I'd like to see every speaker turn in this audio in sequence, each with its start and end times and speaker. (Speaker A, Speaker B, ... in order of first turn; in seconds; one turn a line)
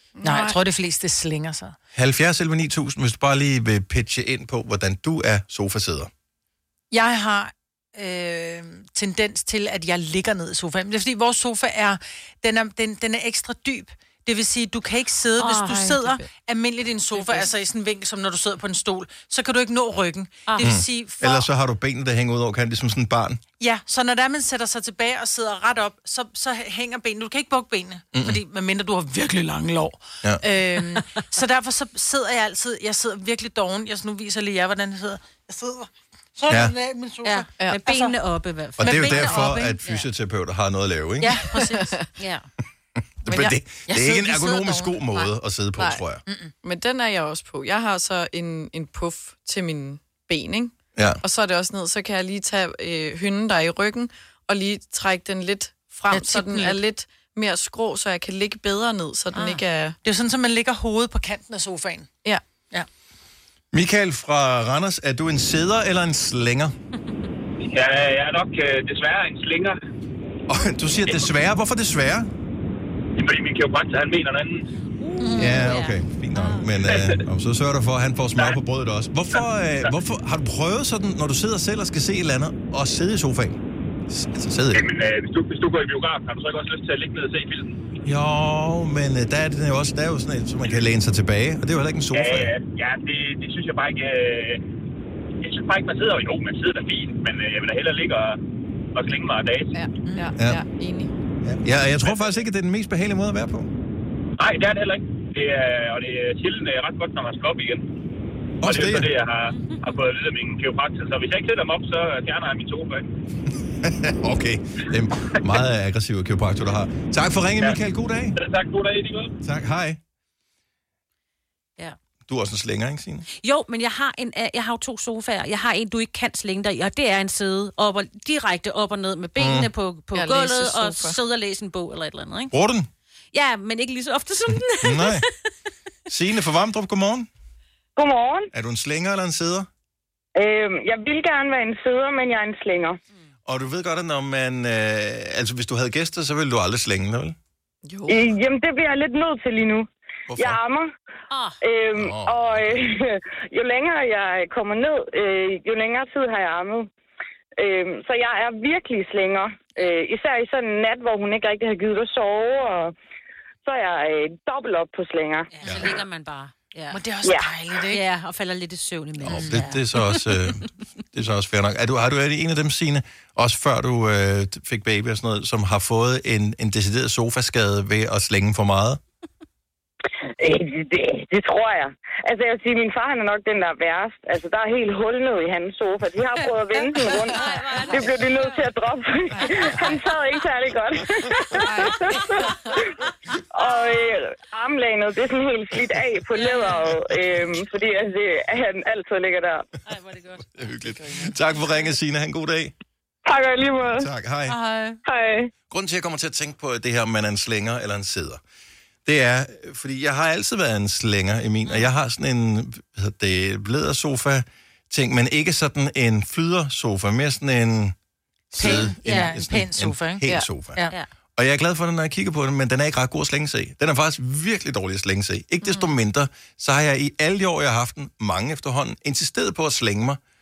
Speaker A: 0.2-0.6
Speaker B: 0.2-1.8
Speaker C: 1.9-6.1
Speaker B: 6.9-21.4
Speaker D: 15.4-16.2
Speaker D: 17.1-17.5
Speaker D: 20.5-20.7
Speaker C: 20.6-23.4
Speaker B: 23.6-38.2
Speaker C: 28.1-28.4
Speaker C: 36.5-36.7
Speaker D: 37.2-40.1
Speaker B: 38.8-39.8
Speaker C: 38.8-41.5
Speaker B: 41.2-42.0
Speaker A: 41.7-42.1
Speaker D: 42.1-42.5
Speaker C: 43.2-46.2
Speaker A: 43.3-43.6
Speaker B: 43.9-45.3
Speaker A: 45.8-46.0
Speaker B: 46.2-46.5
Speaker A: 46.6-60.0
Speaker C: 51.0-51.2
Speaker B: 56.1-56.8
Speaker D: 59.3-59.6
Speaker B: 60.0-62.1
Speaker C: 63.7-66.7
Speaker E: 67.6-69.8
Speaker C: 70.5-72.3
Speaker E: 73.2-74.6
Speaker D: 75.0-76.6
Speaker B: 75.2-75.7
Speaker C: 75.4-84.8
Speaker E: 76.8-77.2
Speaker E: 79.3-79.9
Speaker E: 84.7-87.8
Speaker C: 88.0-92.5
Speaker E: 92.1-94.6
Speaker E: 95.4-98.4
Speaker E: 98.9-99.8
Speaker A: 99.7-101.1
Speaker B: 100.0-100.3
Speaker C: 101.4-103.7
Speaker E: 102.0-102.4
Speaker E: 104.4-107.8
Speaker C: 108.6-109.1
Speaker E: 108.6-113.0
Speaker C: 113.8-118.3
Speaker E: 118.3-119.3
Speaker C: 119.4-120.0
Speaker C: 122.3-123.2
Speaker D: 123.4-132.5
Speaker C: 129.4-129.7
Speaker A: 130.1-131.2
Speaker C: 132.5-132.9
Speaker D: 133.3-135.2
Speaker C: 134.8-135.2
Speaker C: 136.1-137.3
Speaker F: 138.0-138.5
Speaker C: 138.5-139.7
Speaker F: 140.4-143.0
Speaker C: 143.4-147.3
Speaker A: 147.8-148.3
Speaker F: 148.1-150.9
Speaker C: 150.3-150.6
Speaker D: 151.3-151.6
Speaker F: 151.6-156.9
Speaker C: 152.0-152.8
Speaker F: 157.6-162.9
Speaker F: 163.6-165.5
Speaker D: 165.5-167.0
Speaker C: 165.6-165.9
Speaker B: 166.9-168.0
Speaker D: 167.9-170.3
Speaker C: 169.2-179.0
Speaker B: 169.3-169.7
Speaker F: 180.4-192.5
Speaker D: 187.0-188.6
Speaker D: 189.4-190.0
Speaker F: 193.5-199.7
Speaker D: 196.3-196.8
Speaker D: 199.8-200.5
Speaker C: 200.5-202.7
Speaker F: 203.2-204.1
Speaker C: 203.9-204.6
Speaker B: 204.5-205.0
Speaker F: 205.0-205.5
Speaker C: 205.7-208.4
Speaker C: 209.1-217.9
Speaker C: 218.5-220.8
Speaker B: 218.6-220.9
Speaker D: 218.6-219.3
Speaker C: 221.3-230.2
Speaker A: 225.6-225.9